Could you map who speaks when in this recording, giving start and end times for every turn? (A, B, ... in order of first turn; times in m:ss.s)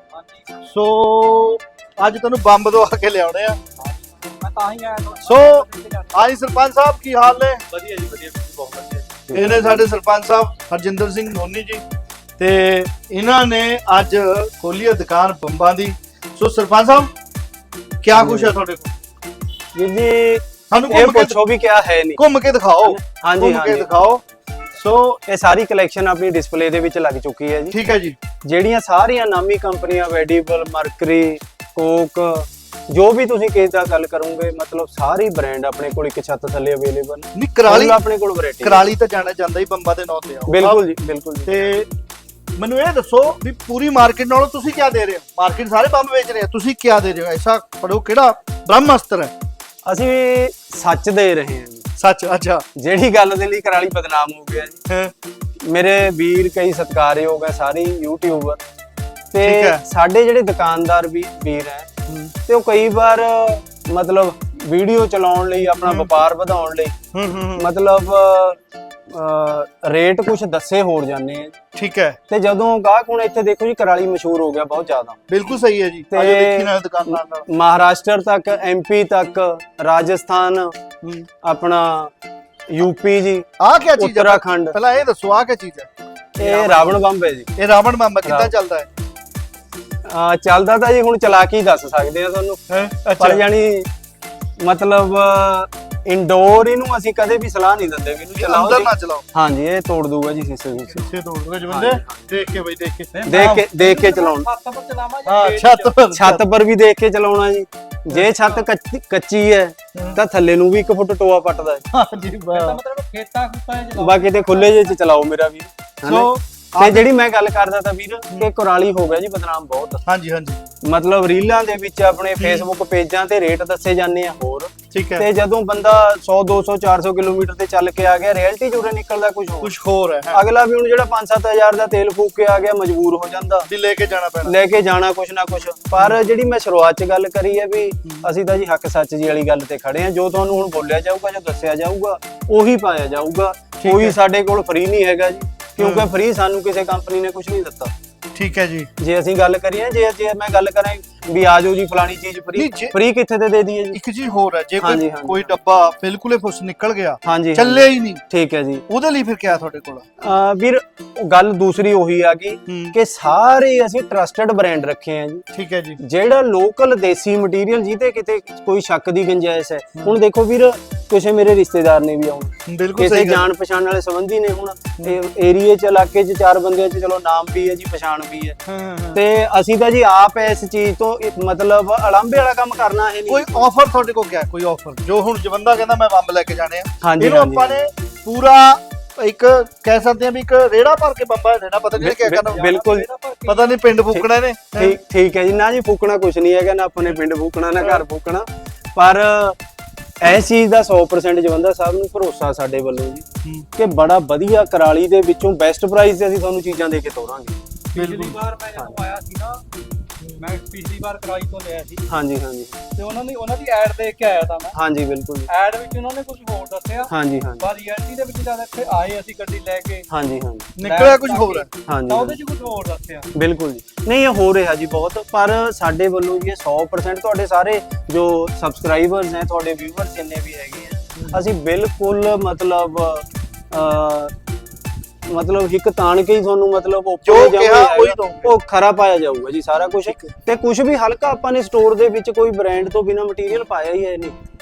0:00.1-0:00.4 A
0:00.6-0:03.6 B
0:03.8-0:06.1 A
0:05.2-0:07.6 B
0:07.7-0:09.3 A
0:09.3-0:09.9 C
0:09.3-0:11.8 B
0:12.4-0:17.1 B
0:18.0-0:18.9 B
0:18.1-0:18.6 C
0:19.7-0:22.2 C
0:20.7-0:21.4 B
0:22.2-0:24.2 B
0:22.8-0:23.9 C
0:24.8-0:25.2 B
0:25.3-0:27.8 C
0:27.7-0:28.2 B
0:28.4-0:38.8 C
0:37.3-0:38.0 B
0:38.6-0:40.8 B
0:40.5-0:41.7 C
0:41.4-0:41.9 B
0:42.6-0:49.3 B
0:49.8-0:51.8 C
0:52.0-0:52.6 B
0:52.8-0:54.8 C
0:55.6-0:58.6 C
0:59.3-1:01.9 C
0:59.4-0:59.8 B
1:02.1-1:02.3 B
1:02.5-1:06.9 C
1:07.1-1:07.7 B
1:07.6-1:11.5 C
1:11.7-1:12.2 B
1:12.3-1:15.2 C
1:15.3-1:17.5 B
1:16.1-1:20.7 C
1:21.0-1:21.3 B
1:21.4-1:22.1 C
1:22.7-1:24.8 C
1:23.6-1:27.0 B
1:26.4-1:27.5 C
1:27.5-1:28.9 B
1:28.2-1:28.5 C
1:30.0-1:32.6 C
1:32.7-1:33.4 B
1:33.1-1:33.9 C
1:34.6-1:41.0 C
1:38.4-1:39.2 B
1:40.9-1:43.7 B
1:41.7-1:42.2 C
1:43.1-1:46.0 A
1:43.2-1:44.5 C
1:45.2-1:46.4 B
1:46.1-1:51.8 C
1:49.9-1:50.2 B
1:51.9-1:52.8 B
1:52.4-1:54.9 A
1:54.0-2:00.0 C
1:56.0-1:57.1 B
2:00.0-2:00.6 B
2:00.8-2:09.7 C
2:02.4-2:02.7 B
2:04.9-2:05.2 B
2:09.6-2:10.4 B
2:10.3-2:13.7 C
2:13.7-2:14.6 B
2:14.4-2:27.9 C
2:18.0-2:18.3 B
2:23.8-2:24.2 B
2:25.8-2:26.1 B
2:28.3-2:28.9 B
2:29.0-2:34.0 C
2:32.5-2:33.0 B
2:33.9-2:38.2 B
2:34.8-2:35.5 C
2:37.2-2:38.8 C
2:38.9-2:40.0 B
2:40.2-2:45.4 C
2:42.7-2:43.0 B
2:45.5-2:46.0 B
2:46.0-2:58.6 C
2:52.6-2:53.5 B
2:58.6-2:59.2 B
2:59.1-3:03.6 C
3:03.3-3:12.7 B
3:07.0-3:07.8 C
3:12.0-3:13.1 C
3:12.4-3:13.8 A
3:13.5-3:15.0 B
3:14.1-3:19.6 C
3:17.8-3:18.0 B
3:20.2-3:23.2 C
3:23.8-3:27.6 C
3:27.9-3:28.4 B
3:27.9-3:29.6 A
3:30.4-3:32.1 A
3:32.1-3:32.8 C
3:33.0-3:34.8 A
3:34.7-3:35.5 C
3:35.5-3:40.1 A
3:37.1-3:37.7 C
3:40.1-3:40.7 C
3:40.8-3:41.7 B
3:40.8-3:43.3 A
3:41.9-3:42.4 C
3:43.3-3:54.3 C
3:51.2-3:51.4 B
3:55.3-4:04.4 C
3:57.2-3:58.5 B